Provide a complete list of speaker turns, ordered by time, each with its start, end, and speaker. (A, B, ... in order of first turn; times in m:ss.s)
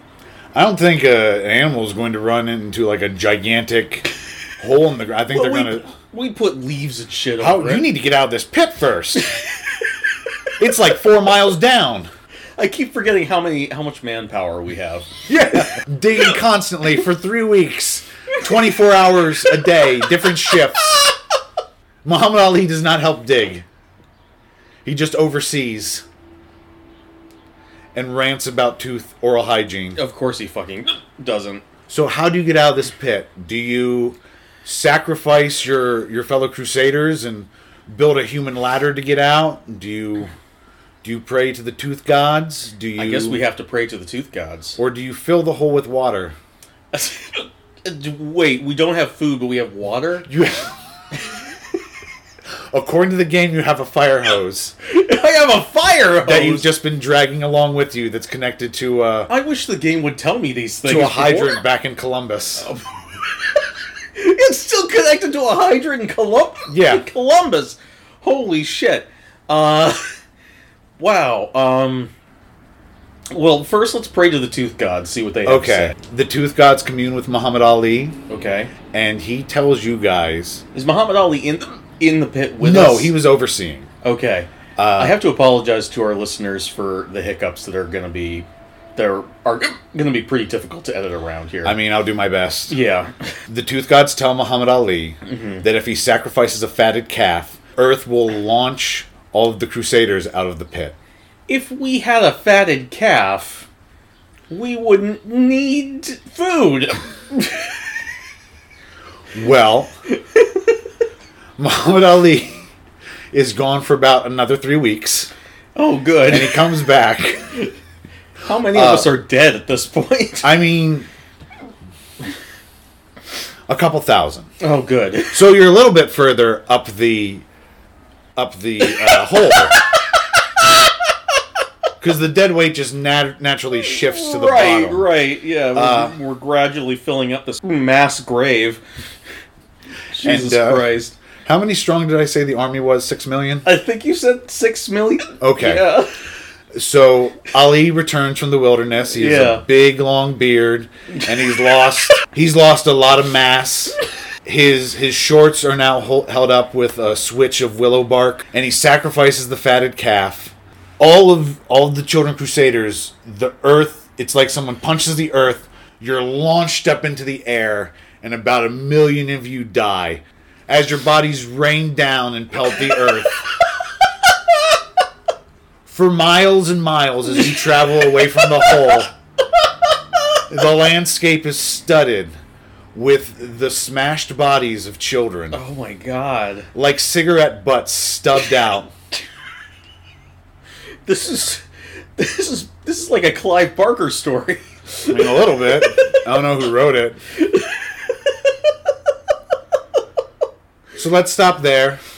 0:00.5-0:04.1 A
0:04.6-0:05.9 A
0:05.3-0:07.9 B
0:07.4-0:09.3 A
0:10.6-0:12.1 A
0:12.6-0:15.1 B
0:15.3-0:20.9 A
0:22.0-0:23.6 A
0:24.8-0:26.0 A
0:27.9-0:30.0 A
0:30.0-0:31.6 B
0:31.9-0:40.3 A
0:41.0-0:43.4 A
0:43.0-0:44.8 B
0:44.8-0:46.4 A
0:46.9-0:50.3 B
0:50.3-0:50.8 A
0:52.7-0:54.8 A
0:54.9-0:56.7 B
0:56.2-0:59.3 A
0:59.3-1:01.6 B
1:00.8-1:02.7 A
1:04.2-1:10.1 B
1:06.7-1:07.0 A
1:11.0-1:12.1 B
1:13.3-1:16.0 B
1:15.4-1:18.2 A
1:18.3-1:18.7 B
1:18.9-1:20.6 A
1:20.7-1:23.2 B
1:22.6-1:23.9 A
1:24.0-1:31.8 B
1:24.8-1:25.2 A
1:31.6-1:32.8 A
1:32.7-1:33.1 B
1:33.5-1:41.0 A
1:35.3-1:35.6 B
1:41.5-1:43.7 B
1:44.5-1:47.7 B
1:49.3-1:49.9 A
1:51.6-1:52.6 A
1:53.3-1:55.3 A
1:55.8-1:56.7 B
1:56.3-1:57.5 A
1:58.4-2:00.5 B
1:58.7-1:59.1 A
2:00.4-2:01.1 A
2:03.7-2:04.5 A
2:04.6-2:05.5 B
2:05.3-2:07.4 A
2:08.4-2:09.8 A
2:12.0-2:15.1 A
2:13.9-2:18.8 B
2:15.7-2:16.2 A
2:20.1-2:21.2 B
2:20.2-2:20.9 A
2:21.4-2:23.7 A
2:23.6-2:26.1 B
2:25.4-2:26.0 A
2:26.7-2:53.4 A
2:29.2-2:29.6 B
2:55.9-2:59.1 A
3:00.5-3:02.4 A
3:02.9-3:05.6 A
3:05.5-3:06.7 B
3:06.7-3:08.9 A
3:11.1-3:11.6 B
3:12.2-3:15.3 B
3:15.1-3:17.2 A
3:21.0-3:22.0 A